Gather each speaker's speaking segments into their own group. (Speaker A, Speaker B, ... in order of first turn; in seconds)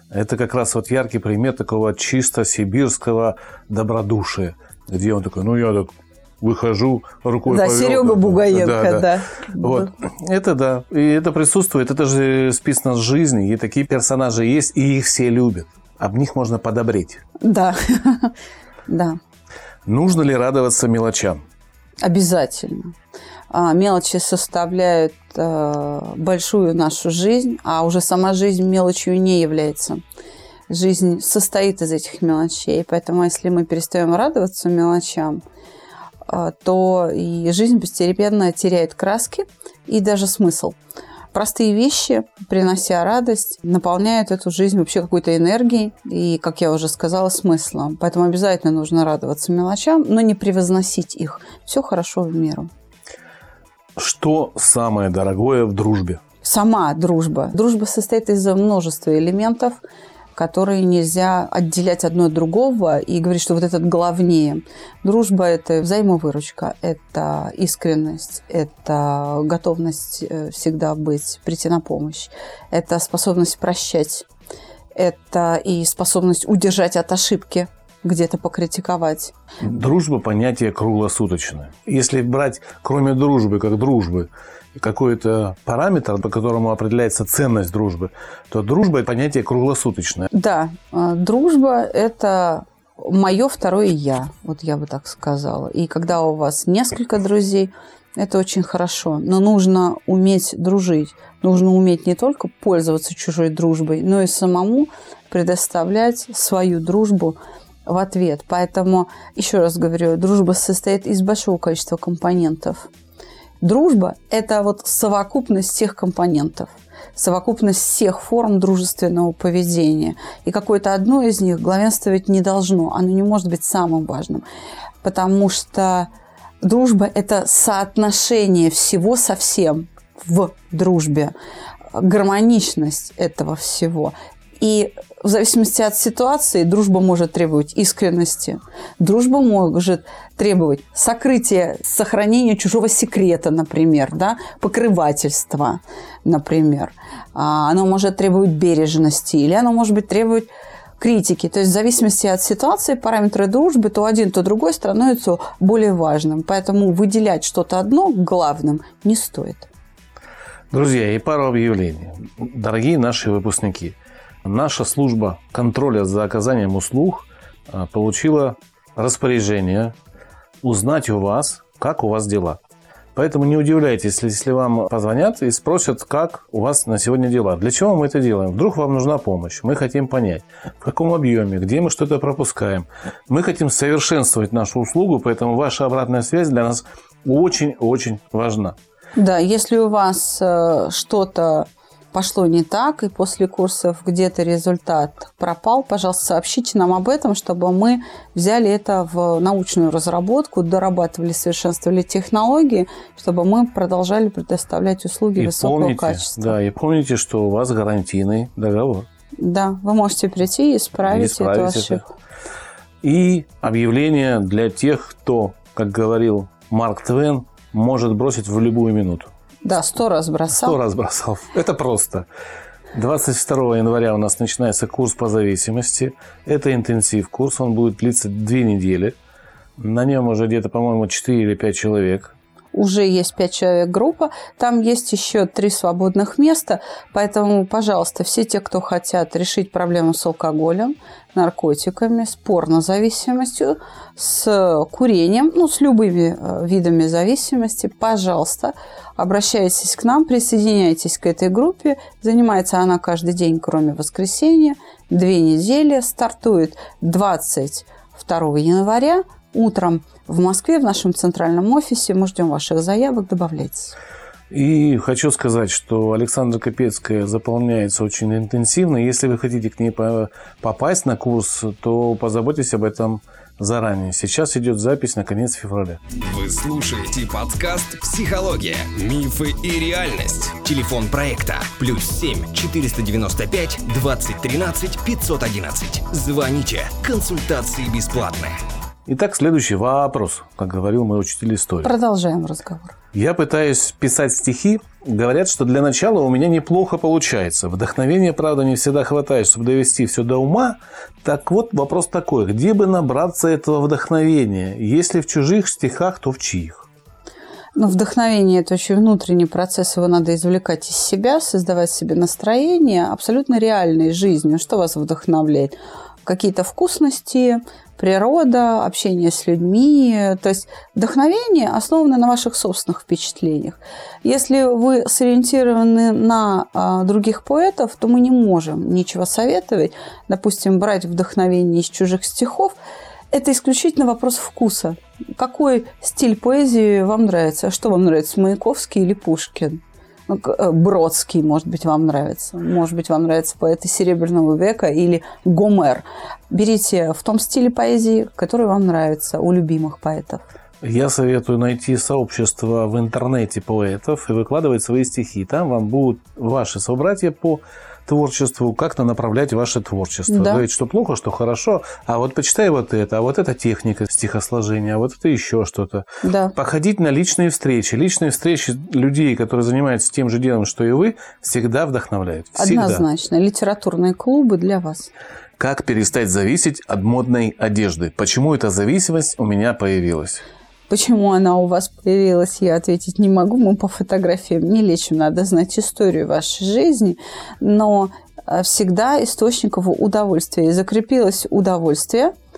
Speaker A: 0.1-17.2, 19.9-21.4, 54.0-56.2, 79.6-90.3, 160.7-169.9, 170.6-172.6, 173.2-188.8, 205.4-209.1, 211.1-212.0, 213.0-219.3, 220.5-222.3, 222.9-229.2, 229.8-232.3, 264.5-276.0, 289.1-291.9, 293.1-306.9, 350.8-373.1, 375.6-380.4
Speaker B: 7.5-9.9, 17.4-18.3, 18.9-19.2, 22.0-22.9, 23.5-30.0, 30.7-35.4, 36.3-40.8, 41.3-52.7, 56.4-59.8, 60.3-74.3, 74.9-79.3, 90.3-112.9, 113.6-124.4, 125.0-126.1, 126.6-131.3, 131.9-159.7, 189.2-206.6, 209.4-212.1, 219.7-220.8, 232.7-263.9, 291.8-292.9, 307.8-332.8, 333.3-350.4, 360.3-360.6, 366.2-366.6, 372.6-375.1, 380.9-392.3
Speaker C: 276.1-288.6